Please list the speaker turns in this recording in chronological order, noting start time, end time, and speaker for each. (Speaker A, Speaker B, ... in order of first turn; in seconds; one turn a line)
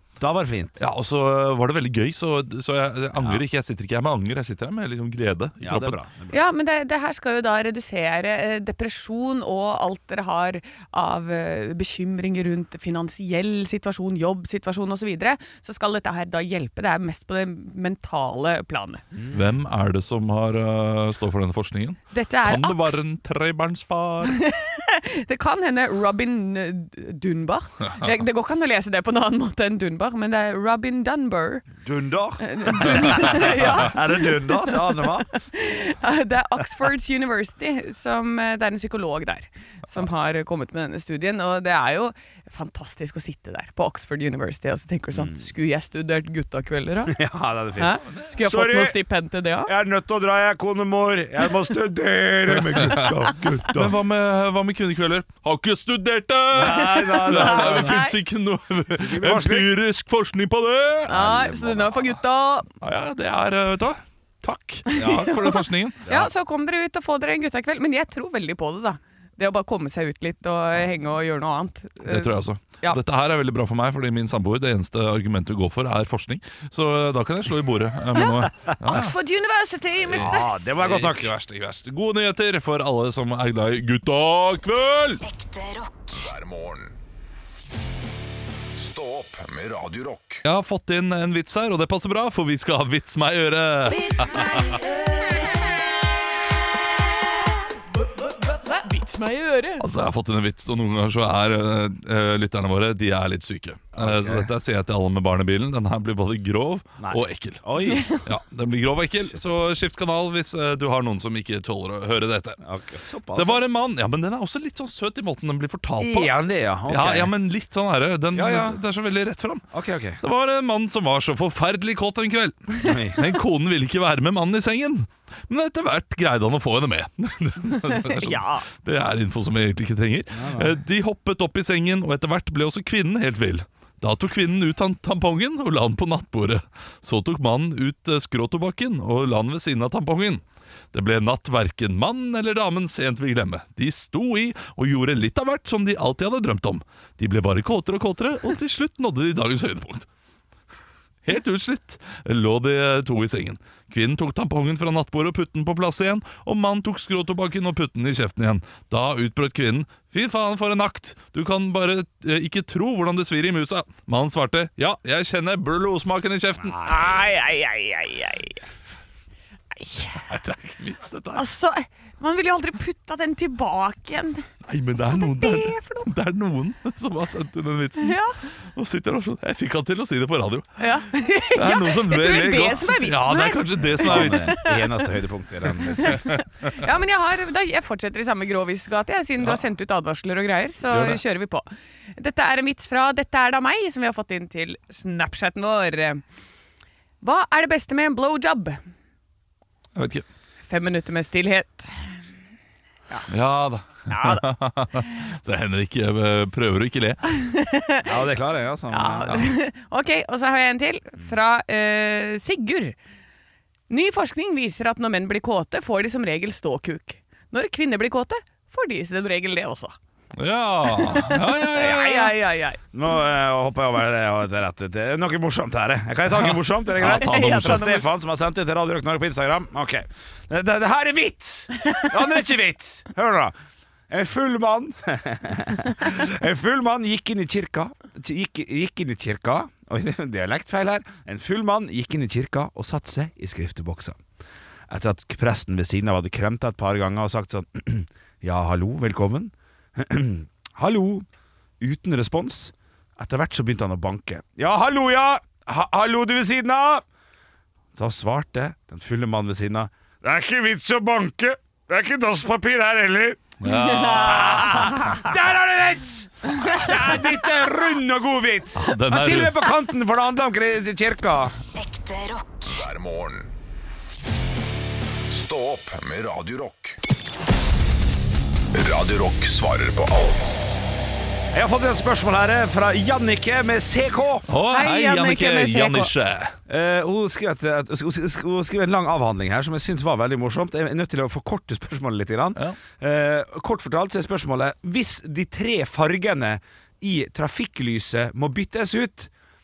Speaker A: 0.2-0.8
Speaker B: 0.8-6.0
Speaker A: 3.2-3.4
Speaker A: 5.6-6.4
Speaker C: 6.3-19.0
Speaker A: 19.1-19.4
Speaker B: 19.3-24.4
Speaker C: 22.1-23.0
Speaker C: 24.2-31.7
Speaker A: 31.8-35.3
Speaker C: 32.4-47.2
Speaker A: 47.1-49.0
Speaker C: 47.8-49.7
Speaker A: 49.6-54.0
Speaker B: 52.5-61.2
Speaker A: 56.5-58.0
Speaker C: 57.2-58.2
Speaker A: 59.0-59.7
Speaker A: 61.1-61.9
Speaker C: 61.1-62.7
Speaker B: 62.7-66.1
Speaker C: 64.9-73.0
Speaker A: 65.0-65.4
Speaker A: 66.0-66.3
Speaker B: 72.1-79.2
Speaker C: 78.2-80.8
Speaker A: 80.1-81.3
Speaker B: 80.1-85.2
Speaker D: 85.2-87.0
Speaker D: 88.6-90.4
Speaker B: 90.4-94.7
Speaker C: 93.8-95.6
Speaker C: 98.5-99.8
Speaker B: 99.8-112.6
Speaker A: 104.0-104.5
Speaker A: 107.0-108.1
Speaker C: 107.9-108.2
Speaker A: 112.6-113.6
Speaker B: 113.3-116.3
Speaker A: 116.0-117.3
Speaker B: 116.9-119.7
Speaker A: 118.3-118.8
Speaker A: 119.7-120.2
Speaker B: 120.2-140.4
Speaker A: 122.8-123.3
Speaker C: 127.9-128.7
Speaker A: 130.3-130.8
Speaker B: 140.9-150.1
Speaker B: 151.2-166.8
Speaker A: 166.6-167.2
Speaker C: 166.8-168.7
Speaker C: 169.8-170.3
Speaker B: 170.3-171.5
Speaker C: 171.3-174.5
Speaker B: 174.7-180.7
Speaker C: 175.1-176.1
Speaker C: 178.0-178.3
Speaker C: 180.8-185.1
Speaker B: 181.6-184.6
Speaker A: 184.0-186.2
Speaker C: 185.8-196.2
Speaker B: 186.0-186.7
Speaker B: 190.9-191.2
Speaker C: 197.2-198.8
Speaker B: 199.9-200.2
Speaker C: 200.7-202.1
Speaker B: 203.3-207.2
Speaker C: 204.1-204.5
Speaker C: 207.3-208.1
Speaker A: 208.0-209.5
Speaker C: 208.9-213.0
Speaker C: 213.9-219.9
Speaker B: 220.4-222.3
Speaker C: 220.8-222.8
Speaker A: 222.9-233.5
Speaker B: 226.3-228.0
Speaker C: 227.0-228.1
Speaker A: 234.1-244.2
Speaker A: 244.9-251.3
Speaker A: 251.8-257.0
Speaker A: 257.9-271.6
Speaker B: 263.6-265.0
Speaker C: 263.7-265.2
Speaker B: 268.8-269.7
Speaker D: 271.8-273.5
Speaker D: 275.1-277.0
Speaker D: 278.7-280.8
Speaker A: 281.5-284.5
Speaker B: 284.5-286.6
Speaker C: 284.7-286.1
Speaker A: 286.7-299.3